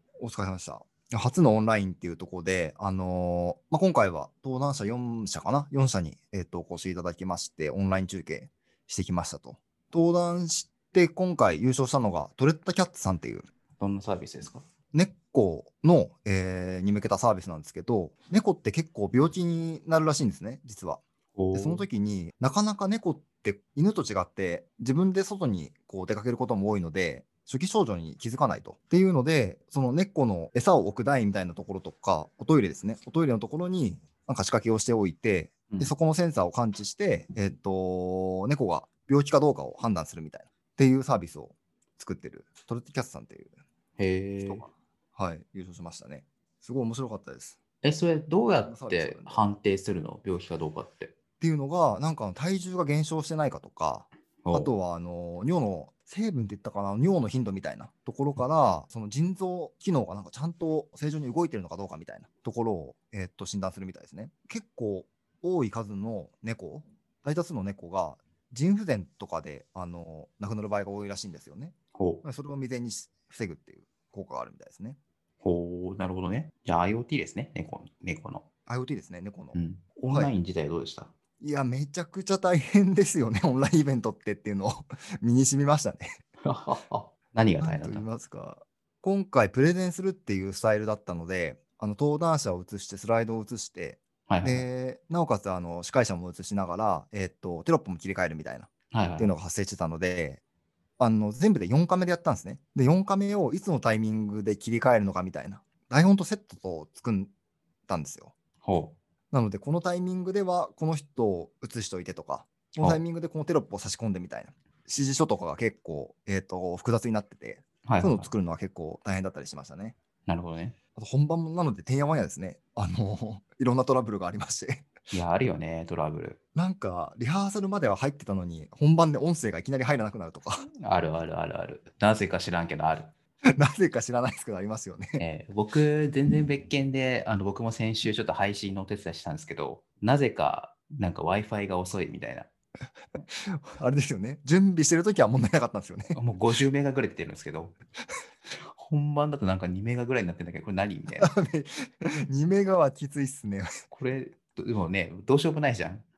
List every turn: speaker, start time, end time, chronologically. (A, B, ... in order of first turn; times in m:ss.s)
0:00.2-0:13.5 A
0:13.8-0:14.6 B
0:14.9-0:21.0 A
0:21.4-0:21.9 B
0:21.5-0:43.5 A
0:44.0-0:44.7 B
0:44.4-0:47.6 A
0:47.8-0:51.1 B
0:48.6-0:49.5 A
0:51.4-1:15.0 A
0:54.4-0:54.7 B
1:11.9-1:12.2 B
1:15.4-1:18.5 B
1:18.7-1:20.3 A
1:19.5-1:21.1 B
1:21.4-1:26.1 A
1:26.4-1:28.1 B
1:27.6-1:40.4 A
1:34.3-1:34.7 B
1:38.9-1:39.4 B
1:41.0-1:47.3 A
1:47.9-1:48.3 A
1:48.6-1:49.0 B
1:49.3-2:00.0 A
1:57.8-1:58.3 B
2:00.3-2:00.8 B
2:01.0-2:04.9 A
2:05.1-2:06.4 B
2:06.5-2:10.7 A
2:10.8-2:13.1 B
2:13.6-2:15.2 A
2:15.2-2:22.5 B
2:23.5-2:26.2 A
2:26.1-2:27.8 B
2:28.6-2:31.3 B
2:31.2-2:33.7 A
2:33.9-2:36.1 B